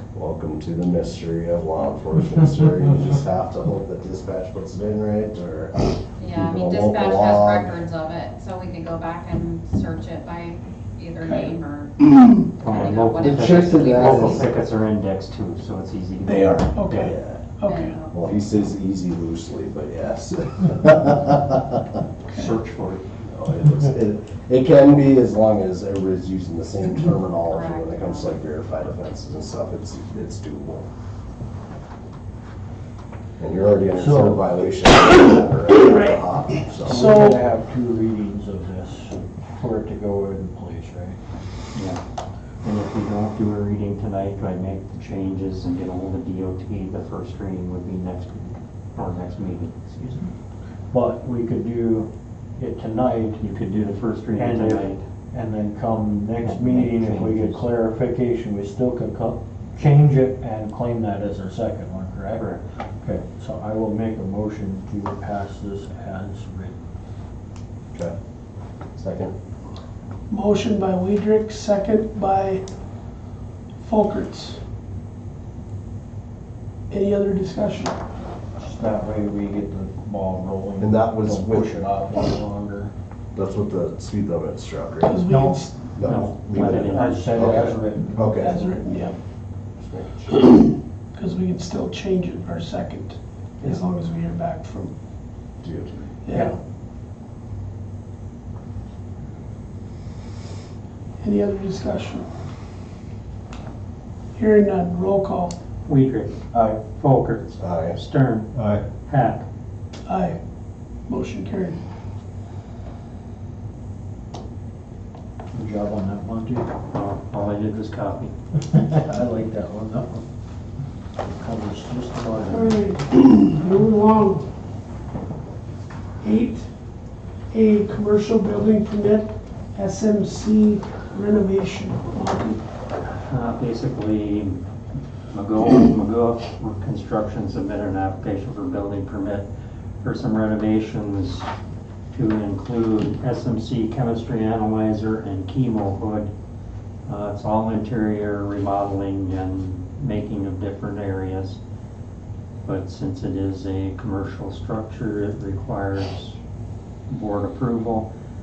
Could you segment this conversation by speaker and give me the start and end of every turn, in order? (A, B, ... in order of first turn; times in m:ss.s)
0:00.1-0:07.8 A
0:06.2-0:12.0 B
0:11.2-0:11.6 C
0:12.6-0:17.0 D
0:12.6-0:14.5 B
0:13.2-0:14.5 A
0:16.2-0:18.0 C
0:16.9-0:17.4 A
0:17.6-0:18.2 B
0:18.1-0:22.0 A
0:22.3-0:23.0 D
0:23.2-0:30.9 A
0:27.4-0:28.4 B
0:33.4-0:37.1 A
0:33.9-0:34.4 E
0:35.8-0:36.2 C
0:36.7-0:41.2 E
0:36.8-0:37.4 C
0:41.7-0:42.0 D
0:42.6-0:50.2 D
0:50.9-0:53.4 E
0:53.4-0:55.0 D
0:54.3-1:02.5 E
0:56.4-0:57.6 D
1:02.3-1:02.6 D
1:03.0-1:06.7 E
1:09.0-1:09.3 A
1:10.3-1:12.6 C
1:13.8-1:14.6 C
1:16.9-1:18.0 C
1:18.6-1:22.9 E
1:20.8-1:22.0 A
1:23.3-1:25.1 A
1:25.0-1:25.8 C
1:25.3-1:28.9 E
1:26.0-1:28.5 A
1:26.0-1:27.7 D
1:28.4-1:29.2 C
1:29.8-1:30.4 A
1:30.4-1:34.9 C
1:35.6-1:36.1 A
1:36.2-1:36.5 C
1:36.3-1:36.6 E
1:41.2-1:42.3 C
1:44.3-1:45.6 C
1:45.8-1:48.5 D
1:46.5-1:46.8 E
1:47.6-1:48.0 A
1:48.5-1:48.8 E
1:49.0-1:49.4 D
1:50.0-1:50.4 C
1:51.1-1:51.8 C
1:55.5-1:56.7 E
1:56.9-1:58.3 D
1:58.8-2:00.2 E
2:01.2-2:02.8 E
2:02.4-2:04.5 C
2:06.2-2:06.7 C
2:07.5-2:12.6 C
2:13.0-2:19.5 D
2:20.0-2:21.5 D
2:22.1-2:26.3 D
2:27.0-2:31.6 D
2:32.6-2:36.4 D
2:37.1-2:38.1 D